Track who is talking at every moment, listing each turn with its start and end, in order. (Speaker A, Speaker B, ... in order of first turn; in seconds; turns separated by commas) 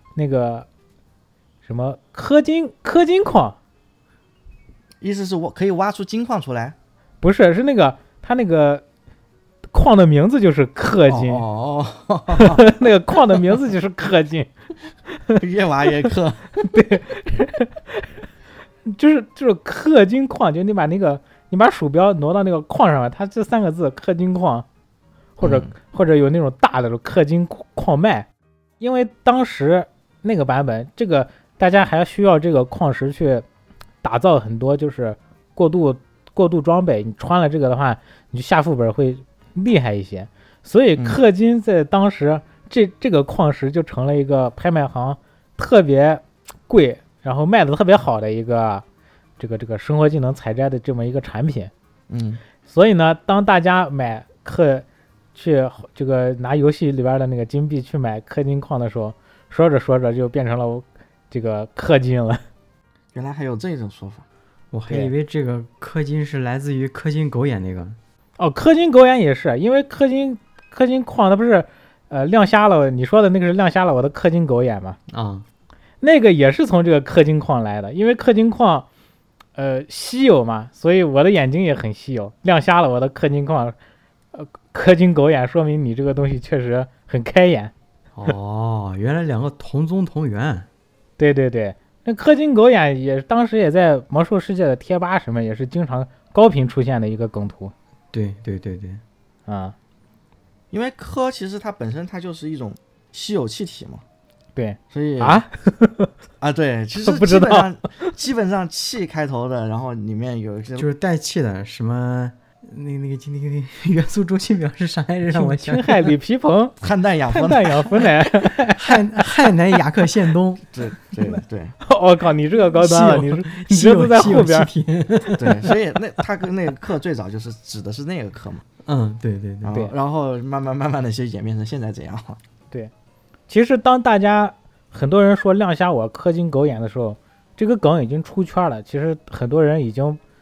Speaker A: 0.2-0.7, Speaker A: 1.6-3.6, Speaker B: 5.0-6.8, Speaker A: 7.2-8.8, Speaker A: 9.7-11.4, Speaker B: 11.1-12.7, Speaker A: 12.3-14.5, Speaker A: 15.1-15.4, Speaker B: 15.4-16.5, Speaker A: 16.6-18.1, Speaker A: 18.9-24.7, Speaker A: 25.4-28.3, Speaker B: 25.4-25.7, Speaker A: 28.8-33.5, Speaker A: 34.0-48.8, Speaker A: 49.4-51.7, Speaker B: 52.1-52.4, Speaker A: 52.6-62.4, Speaker B: 63.1-64.2, Speaker C: 64.7-68.0, Speaker A: 68.4-75.0, Speaker C: 75.1-75.5, Speaker A: 76.0-78.9, Speaker A: 79.6-83.8, Speaker A: 84.3-87.7, Speaker C: 88.2-90.7, Speaker A: 91.2-97.7, Speaker C: 98.1-99.0, Speaker A: 99.5-99.8, Speaker B: 100.7-104.0, Speaker A: 104.6-106.1, Speaker B: 104.9-105.4, Speaker B: 106.4-110.9, Speaker A: 107.0-108.1, Speaker C: 110.8-116.1, Speaker A: 115.3-116.8, Speaker B: 116.8-118.1, Speaker A: 117.3-119.0, Speaker C: 118.7-120.7, Speaker B: 120.7-121.8, Speaker A: 121.3-124.7, Speaker C: 122.7-125.8, Speaker B: 125.4-128.7, Speaker C: 128.9-129.7, Speaker B: 129.6-132.4, Speaker A: 133.5-140.2